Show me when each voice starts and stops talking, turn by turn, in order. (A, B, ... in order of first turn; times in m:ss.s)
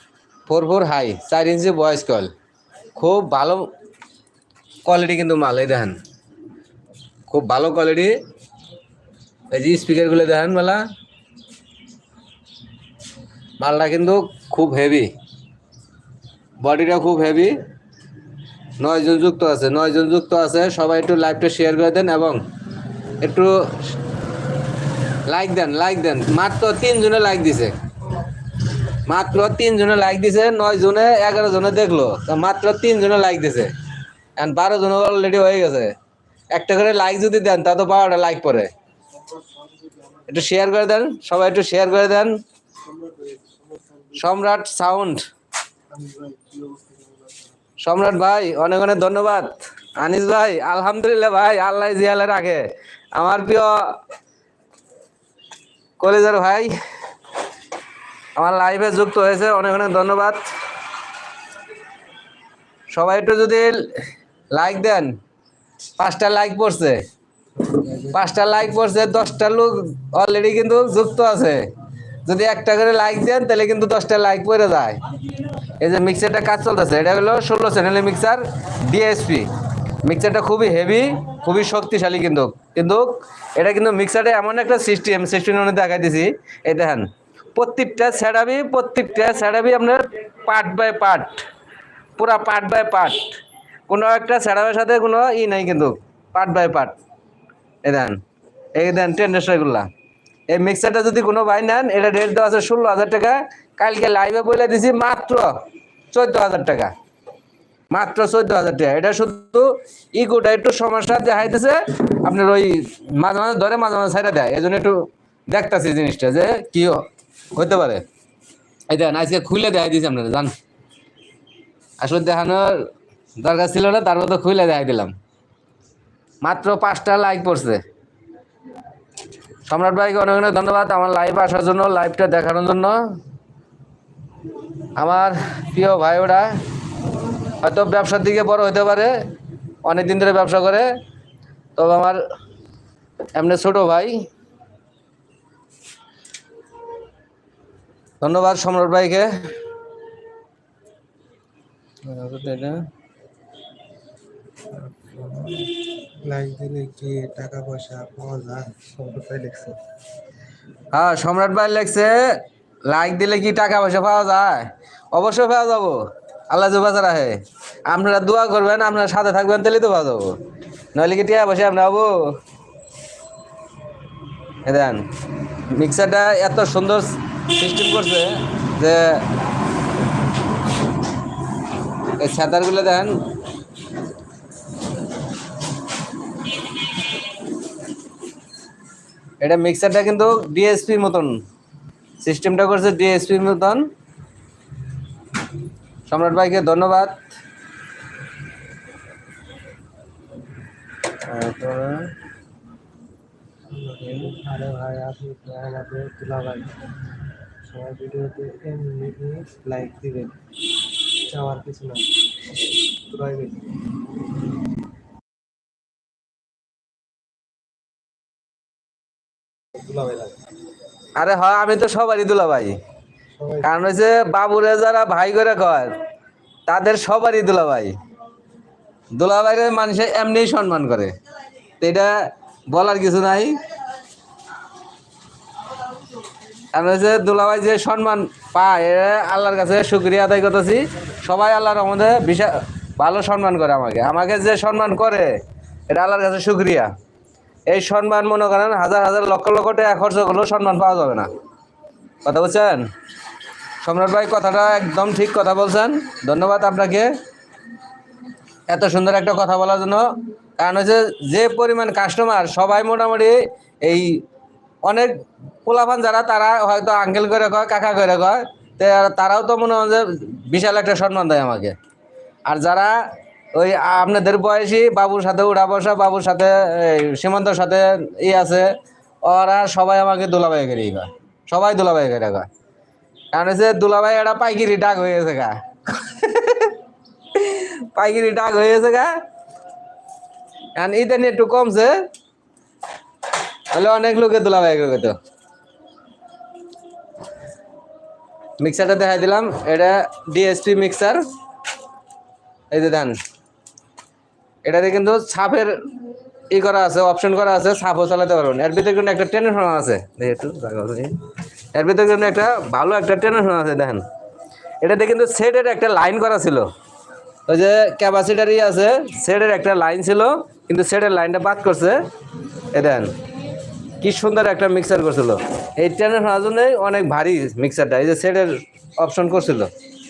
0:00.4-0:02.3 A
0:03.0-0:03.7 A
0:04.8-0:06.0 A
0:07.3-0:08.2 A
0:09.5-0:10.8 A
0:13.6-0:15.1 A
0:16.6-0:17.6 A
0:18.8-0:22.4 A
0:23.2-0:23.9 A
0:25.3-0:27.7 A
0:29.0-0:33.7 A
0:34.4-0:35.9 A
0:36.5-0:38.7 A
0:40.2-0:42.4 A
0:42.9-0:44.2 B
0:44.1-0:45.2 A
0:45.9-0:47.5 B
0:47.8-0:54.0 A
0:56.0-0:56.7 A
0:58.4-1:00.5 A
1:02.9-1:05.2 A
1:06.0-1:07.0 A
1:07.6-1:08.1 B
1:08.1-1:11.6 A
1:12.2-1:15.0 A
1:15.8-1:19.5 A
1:20.0-1:31.4 A
1:32.2-1:37.0 A
1:37.8-1:38.2 A
1:38.7-1:39.9 A
1:40.5-1:45.5 A
1:46.1-1:46.9 A
1:47.9-1:58.0 A
1:58.9-2:00.5 A
2:02.0-2:02.9 A
2:03.4-2:05.1 A
2:06.4-2:07.8 A
2:09.7-2:13.2 A
2:15.0-2:16.6 A
2:17.6-2:19.2 A
2:19.8-2:20.9 A
2:21.8-2:22.2 A
2:23.3-2:24.3 A
2:28.2-2:29.4 A
2:32.0-2:32.8 A
2:34.7-2:39.8 B
2:40.9-2:50.4 A
2:50.9-2:52.4 A
2:54.6-2:55.0 A
2:55.7-2:59.2 A
3:02.2-3:03.1 A
3:09.4-3:11.4 A
3:12.2-3:13.9 A
3:16.1-3:17.2 A
3:21.2-3:22.1 A
3:23.7-3:26.8 B
3:24.0-3:24.3 A
3:27.6-3:30.4 B
3:31.1-3:32.2 B
3:33.1-3:33.6 B
3:39.8-3:40.4 B
3:41.2-3:42.8 A
3:43.4-3:43.7 B
3:43.6-3:46.0 A
3:46.7-3:47.9 A
3:49.1-3:51.1 A
3:51.8-3:53.6 A
3:56.7-4:05.3 A
4:05.9-4:06.9 A
4:07.7-4:11.3 A
4:12.2-4:12.9 A
4:13.8-4:17.1 A
4:18.7-4:24.2 A
4:24.8-4:31.7 A
4:32.5-4:33.0 A
4:33.5-4:38.7 A
4:39.2-4:42.5 A
4:43.3-4:46.8 A
4:47.3-4:49.2 A
4:50.7-4:52.1 A
4:53.7-4:55.2 A
4:58.6-5:01.2 A
5:02.7-5:03.2 A
5:04.6-5:05.7 A
5:06.5-5:11.2 A
5:11.7-5:14.0 A
5:14.8-5:16.7 A
5:17.5-5:22.0 A
5:22.7-5:23.2 A
5:24.0-5:29.7 A